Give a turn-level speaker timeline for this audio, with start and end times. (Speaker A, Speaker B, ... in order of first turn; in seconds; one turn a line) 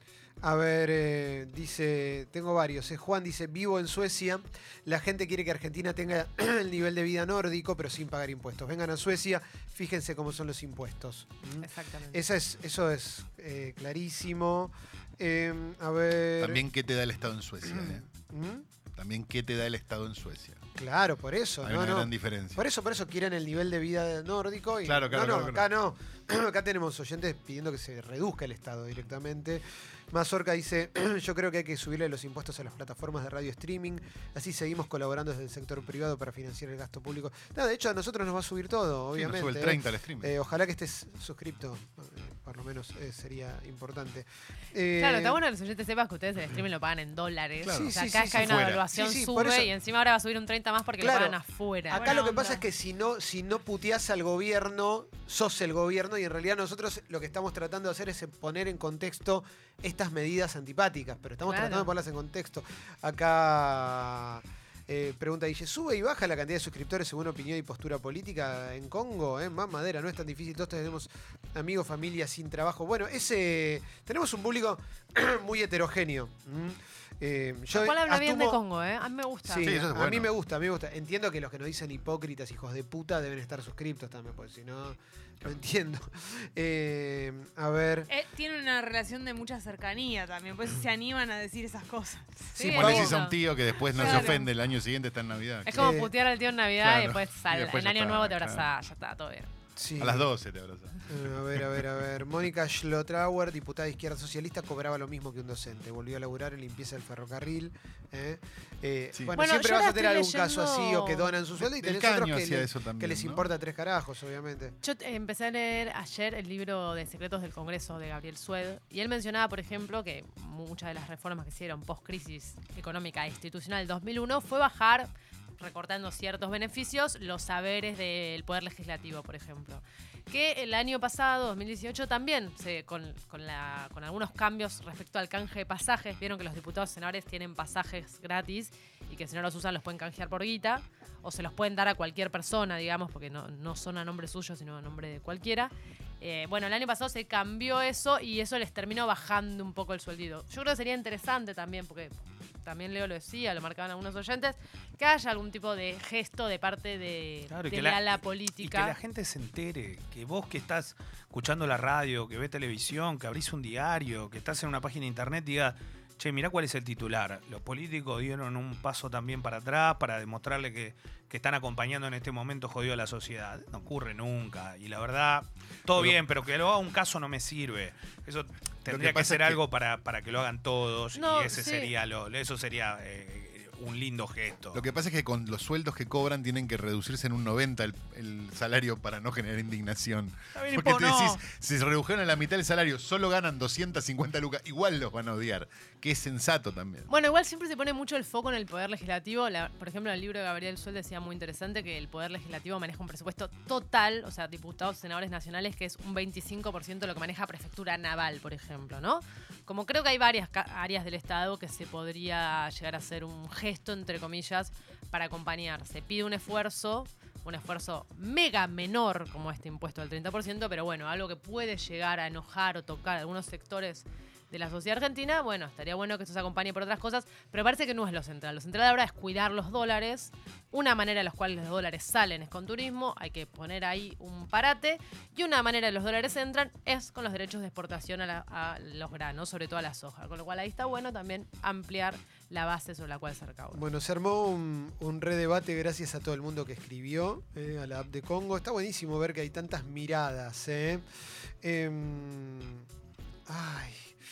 Speaker A: 0.4-16.6
Speaker B: 11.6-12.2
Speaker C: 16.4-18.0
Speaker A: 17.6-18.6
Speaker C: 18.9-20.6
Speaker A: 20.8-45.4
Speaker C: 21.6-22.6
Speaker C: 24.8-25.6
Speaker C: 39.1-40.3
Speaker B: 45.0-52.6
Speaker C: 47.6-48.8
Speaker A: 47.7-49.7
Speaker A: 51.0-78.6
Speaker D: 52.0-52.3
Speaker B: 61.5-61.9
Speaker B: 77.7-79.7
Speaker A: 79.5-88.1
Speaker C: 79.5-80.3
Speaker D: 88.1-92.5
Speaker B: 92.5-93.4
Speaker A: 92.6-93.2
Speaker C: 92.7-96.0
Speaker D: 93.9-94.2
Speaker B: 93.9-94.4
Speaker B: 95.7-99.5
Speaker A: 95.7-96.1
Speaker C: 96.8-98.7
Speaker A: 99.8-100.3
Speaker C: 100.0-102.1
Speaker A: 101.1-114.8
Speaker B: 109.3-111.3
Speaker C: 111.6-113.5
Speaker B: 114.8-159.0
Speaker E: 157.5-184.8
Speaker C: 178.9-179.6
Speaker B: 181.1-181.9
Speaker C: 184.7-197.1
Speaker B: 190.5-191.4
Speaker B: 197.1-243.8
Speaker A: 243.7-251.1
Speaker A: 251.6-252.9
Speaker A: 253.5-254.2